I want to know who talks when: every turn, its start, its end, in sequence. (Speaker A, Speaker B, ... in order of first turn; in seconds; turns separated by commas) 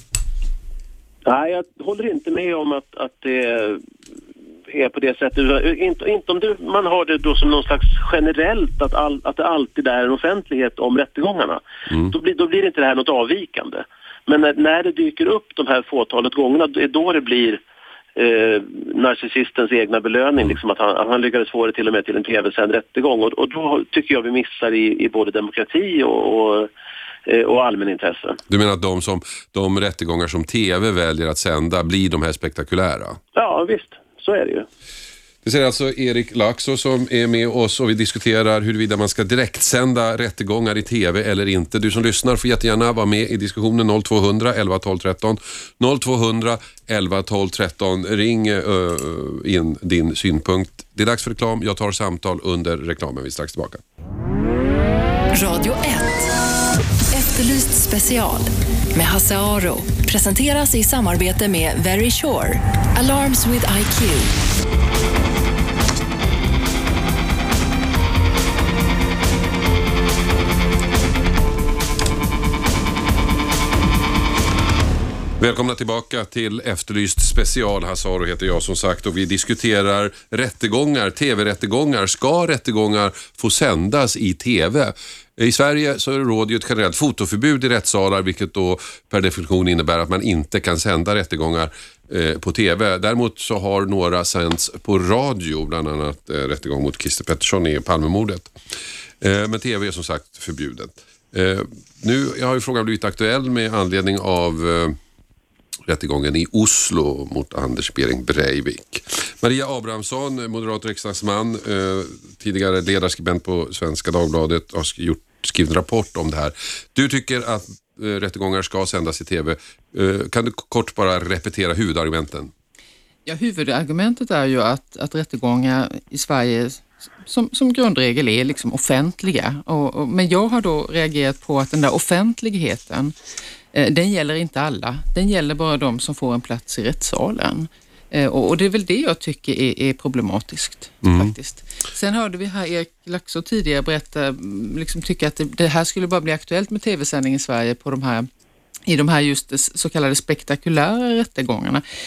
Speaker A: 1.3-3.8, Speaker A: 4.7-17.6, Speaker A: 18.2-26.7, Speaker A: 27.3-28.4, Speaker B: 28.5-33.2, Speaker A: 33.4-34.7, Speaker B: 35.4-53.8, Speaker C: 55.4-56.2, Speaker C: 57.1-64.3, Speaker B: 75.4-98.5, Speaker B: 99.2-105.0, Speaker B: 105.9-122.5, Speaker D: 123.3-133.1, Speaker D: 133.7-148.3, Speaker B: 141.0-141.3, Speaker D: 148.9-151.8